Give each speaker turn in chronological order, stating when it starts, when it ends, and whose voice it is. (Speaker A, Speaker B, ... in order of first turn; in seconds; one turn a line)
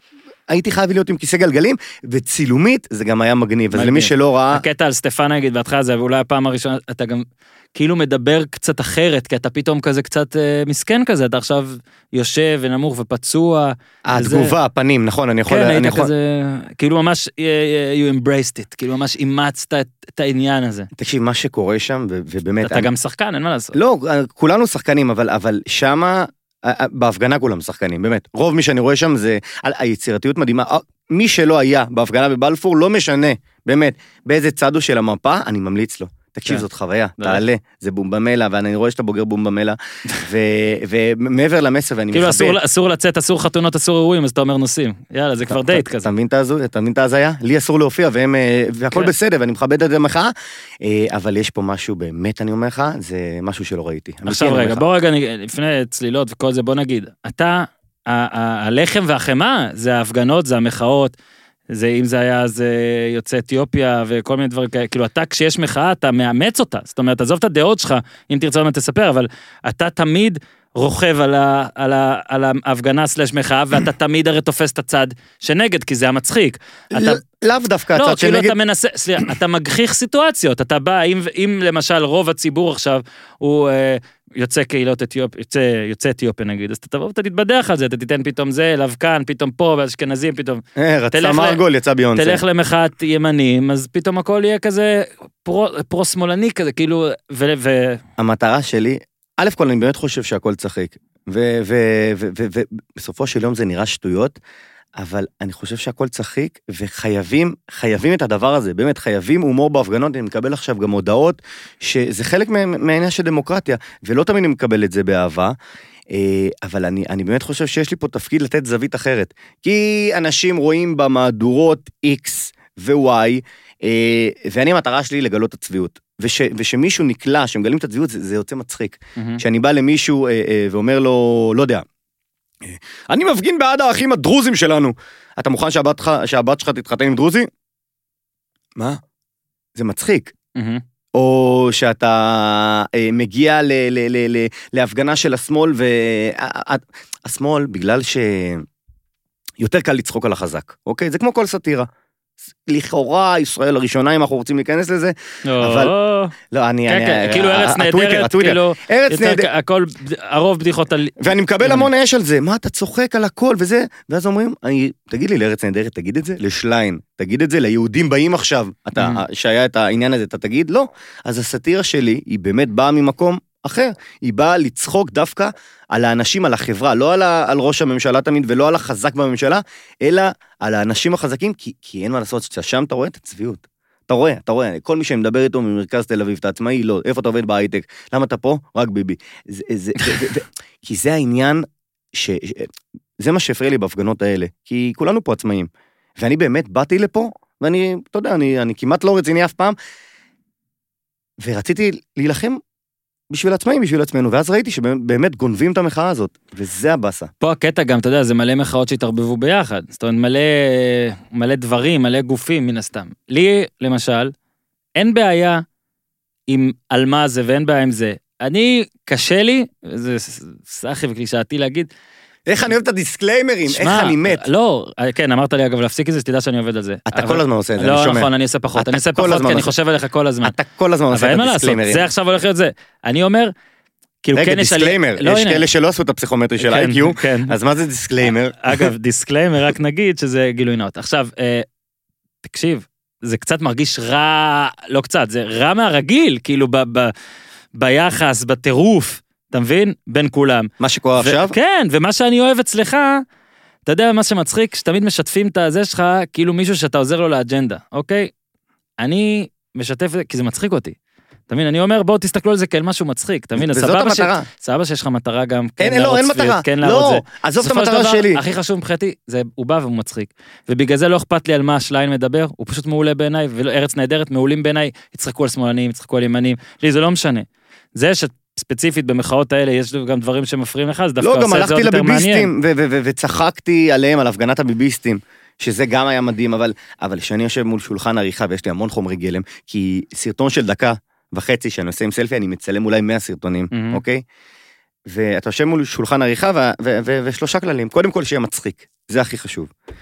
Speaker A: 0.5-4.6
Speaker B: 3.7-14.5
Speaker A: 14.1-16.1
Speaker B: 15.5-20.9
Speaker A: 21.0-22.9
Speaker B: 22.6-23.8
Speaker A: 23.7-42.6
Speaker B: 42.1-46.1
Speaker A: 45.5-54.8
Speaker B: 54.2-61.1
Speaker B: 61.7-77.2
Speaker A: 76.9-78.5
Speaker B: 77.9-91.6
Speaker A: 90.8-92.4
Speaker B: 92.1-98.0
Speaker A: 98.2-104.4
Speaker A: 105.0-115.5
Speaker A: 116.1-131.8
Speaker B: 129.2-129.4
Speaker A: 132.6-137.5
Speaker A: 139.8-140.3
Speaker B: 140.6-140.8
Speaker A: 141.1-148.6
Speaker A: 149.6-151.9
Speaker A: 152.7-155.9
Speaker B: 155.4-156.3
Speaker A: 156.5-159.5
Speaker B: 156.9-161.9
Speaker A: 161.2-199.8
Speaker B: 168.9-169.2
Speaker A: 201.4-202.6
Speaker A: 203.3-207.3
Speaker B: 207.4-214.3
Speaker B: 215.0-215.6
Speaker B: 216.5-221.9
Speaker A: 222.5-224.4
Speaker B: 223.7-230.6
Speaker A: 227.1-229.7
Speaker A: 230.4-232.1
Speaker B: 231.1-233.5
Speaker B: 234.2-235.6
Speaker A: 234.3-238.9
Speaker B: 236.6-237.5
Speaker B: 238.2-241.7
Speaker B: 242.4-247.1
Speaker B: 247.7-253.2
Speaker A: 250.8-251.5
Speaker B: 253.8-258.3
Speaker B: 259.0-260.9
Speaker B: 261.5-282.5
Speaker A: 263.6-264.5
Speaker A: 265.8-268.4
Speaker A: 281.2-294.2
Speaker B: 293.7-294.0
Speaker A: 295.1-299.7